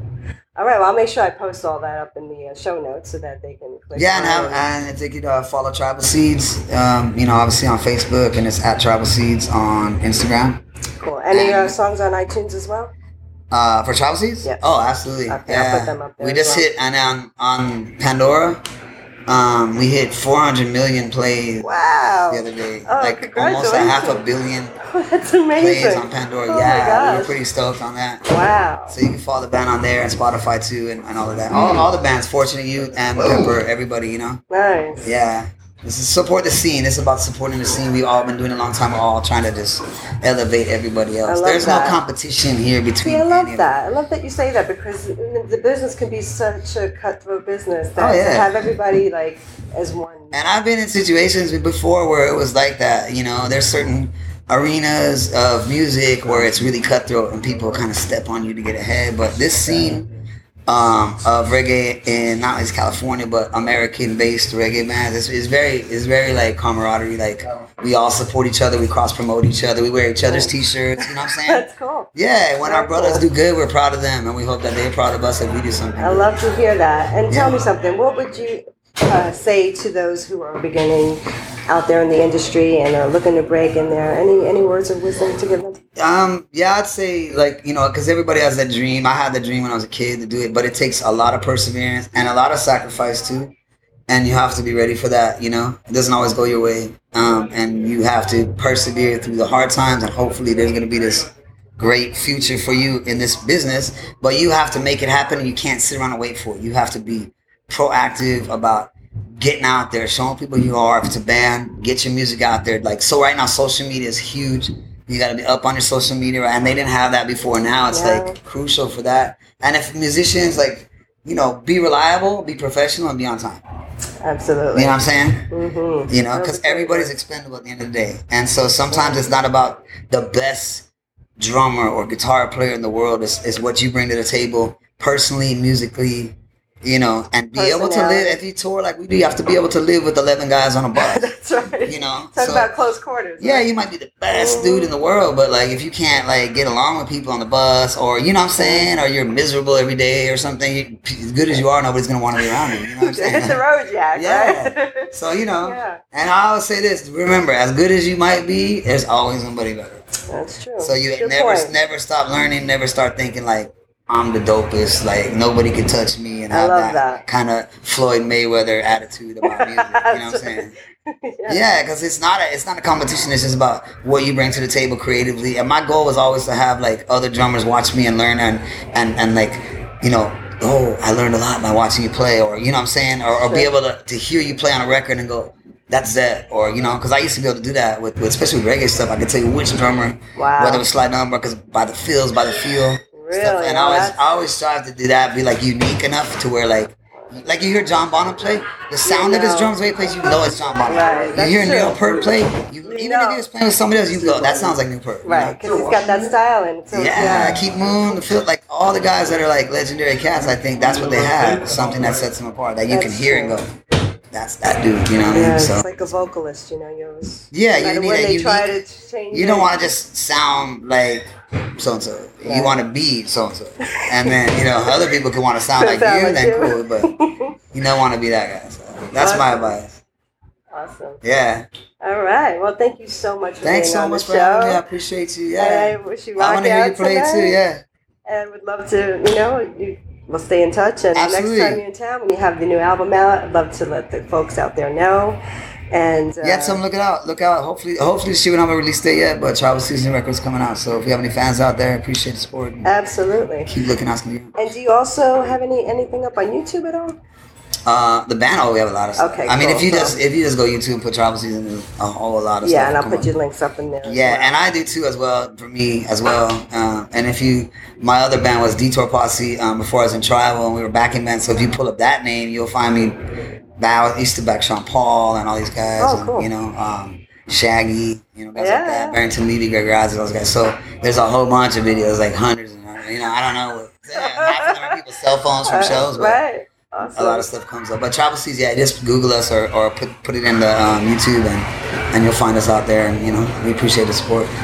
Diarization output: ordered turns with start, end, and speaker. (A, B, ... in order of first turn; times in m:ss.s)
0:00.6-0:04.6 A
0:03.9-0:10.6 B
0:11.0-0:12.9 A
0:11.3-0:11.7 B
0:13.5-0:18.6 B
0:15.3-0:16.7 A
0:19.3-0:21.7 B
0:21.6-0:24.2 A
0:22.3-0:24.8 B
0:24.8-0:27.3 A
0:25.6-0:28.2 B
0:28.2-0:29.0 A
0:28.9-0:34.4 B
0:34.5-0:35.0 A
0:35.0-0:43.7 B
0:41.2-0:42.0 A
0:43.0-0:50.4 A
0:48.0-0:48.7 B
0:50.3-1:00.1 B
1:00.7-1:16.3 B
1:10.3-1:12.1 A
1:12.6-1:13.2 A
1:16.0-1:25.8 A
1:17.3-1:17.6 B
1:26.0-1:33.5 B
1:34.1-2:03.6 B
1:57.9-1:58.4 A
2:04.2-2:07.1 A
2:04.7-2:05.5 B
2:06.1-2:10.9 B
2:08.9-2:09.2 A
2:11.4-2:21.3 B
2:17.5-2:18.4 A
2:21.0-2:23.7 A
2:21.8-2:22.7 B
2:23.4-2:33.6 B
2:24.3-2:24.9 A
2:28.6-2:28.9 A
2:32.9-2:36.0 A
2:34.1-2:40.1 B
2:40.3-2:41.7 A
2:40.8-2:50.7 B
2:46.5-2:47.2 A
2:49.4-2:51.6 A
2:51.5-3:25.6 B
3:03.4-3:03.7 A
3:10.4-3:10.8 A
3:13.1-3:14.2 A
3:19.0-3:19.8 A
3:20.8-3:22.0 A
3:22.8-3:23.4 A
3:25.2-3:27.6 A
3:26.9-3:33.7 B
3:32.9-3:33.6 A
3:34.3-3:36.1 B
3:35.3-3:39.7 A
3:37.5-3:47.1 B
3:42.4-3:42.8 A
3:43.9-3:44.4 A
3:45.7-3:47.5 A
3:47.7-3:50.0 B
3:49.2-3:49.8 A
3:50.7-3:51.2 A
3:51.2-3:51.7 B
3:52.0-3:54.8 A
3:53.6-3:57.8 B
3:55.6-3:57.6 A
3:58.3-4:05.4 A
4:01.1-4:01.8 B
4:05.9-4:06.8 A
4:06.4-4:12.9 B
4:12.8-4:13.7 A
4:13.6-4:14.5 B
4:14.6-4:17.2 A
4:17.8-4:23.3 B
4:19.2-4:20.1 A
4:22.6-4:24.5 A
4:24.0-4:33.2 B
4:33.8-4:46.4 B
4:36.0-4:36.5 A
4:38.5-4:39.2 A
4:44.1-4:45.0 A
4:45.6-4:47.5 A
4:47.1-4:54.5 B